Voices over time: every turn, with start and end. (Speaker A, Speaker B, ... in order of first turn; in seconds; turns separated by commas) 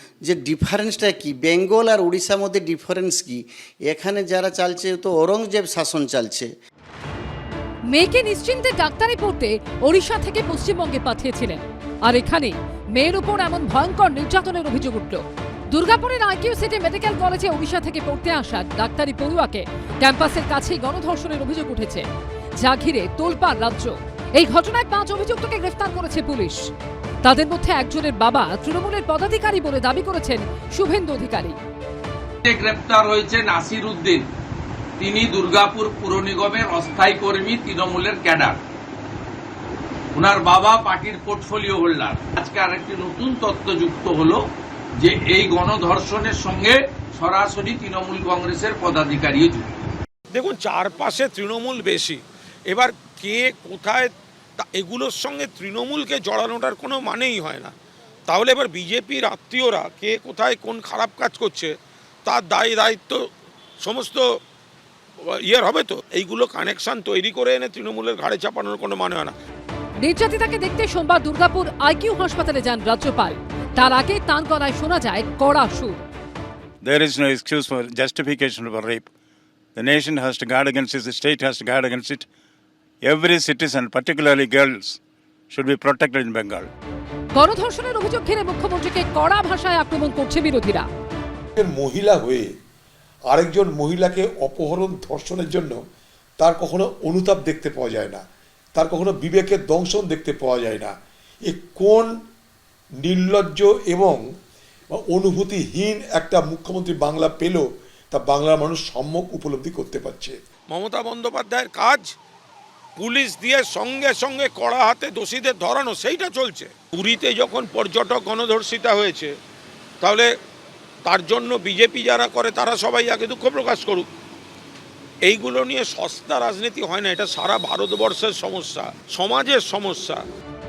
Speaker A: 0.2-6.5, Speaker B: 7.9-22.0, Speaker B: 22.6-26.6, Speaker B: 27.2-31.6, Speaker C: 32.5-34.2, Speaker C: 35.0-38.6, Speaker C: 40.1-44.4, Speaker C: 45.0-49.7, Speaker D: 50.3-57.7, Speaker D: 58.3-61.7, Speaker D: 62.2-63.2, Speaker D: 63.8-64.2, Speaker D: 65.3-69.3, Speaker B: 70.0-76.0, Speaker E: 76.8-79.1, Speaker E: 79.8-82.3, Speaker E: 83.0-85.0, Speaker E: 85.5-86.7, Speaker B: 87.3-90.9, Speaker F: 91.6-92.5, Speaker F: 93.3-95.8, Speaker F: 96.4-98.2, Speaker F: 98.7-100.9, Speaker F: 101.5-102.1, Speaker F: 103.0-104.2, Speaker F: 104.9-110.3, Speaker D: 110.7-112.1, Speaker D: 113.0-119.3, Speaker D: 121.0-124.1, Speaker D: 125.2-130.2